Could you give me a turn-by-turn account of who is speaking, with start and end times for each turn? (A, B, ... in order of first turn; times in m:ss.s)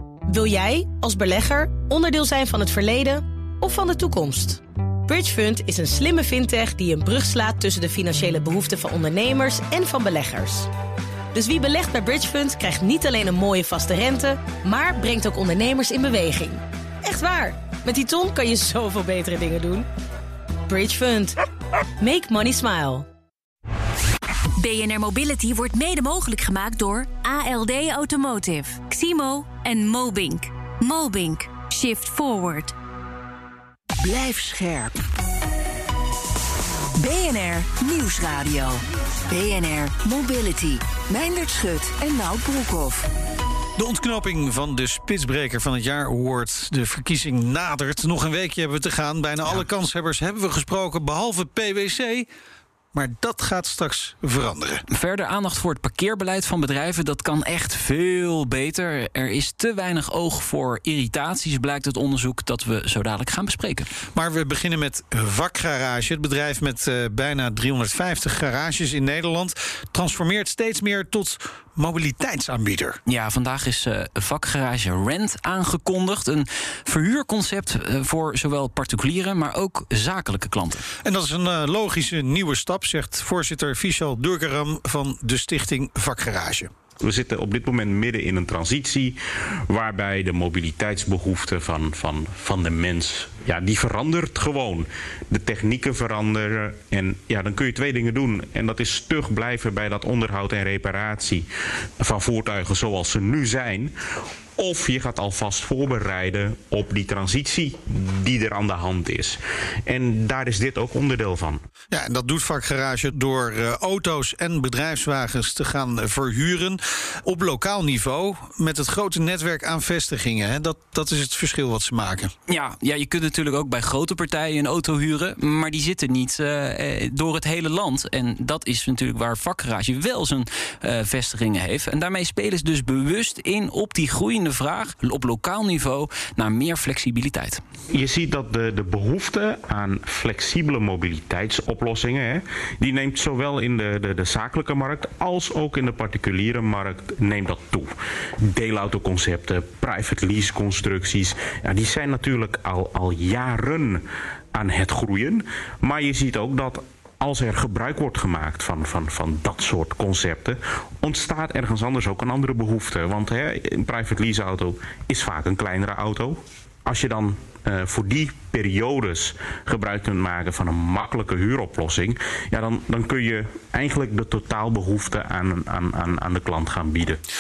0:00.3-0:10.7 A
0:11.3-0:19.9 A
0:20.7-0:21.4 A
0:22.0-0:23.1 A
0:24.6-0:32.8 B
0:34.0-0:35.0 C
0:37.0-0:43.1 C
0:43.8-0:52.3 D
0:52.9-0:54.8 D
0:54.9-1:03.9 E
1:04.1-1:13.0 D
1:13.1-1:20.8 E
1:21.0-1:26.7 D
1:27.0-1:41.5 F
1:42.0-1:43.9 F
1:44.6-1:51.6 F
1:51.9-2:02.3 D
2:02.5-2:17.6 E
2:17.9-2:34.0 F
2:34.6-2:57.2 F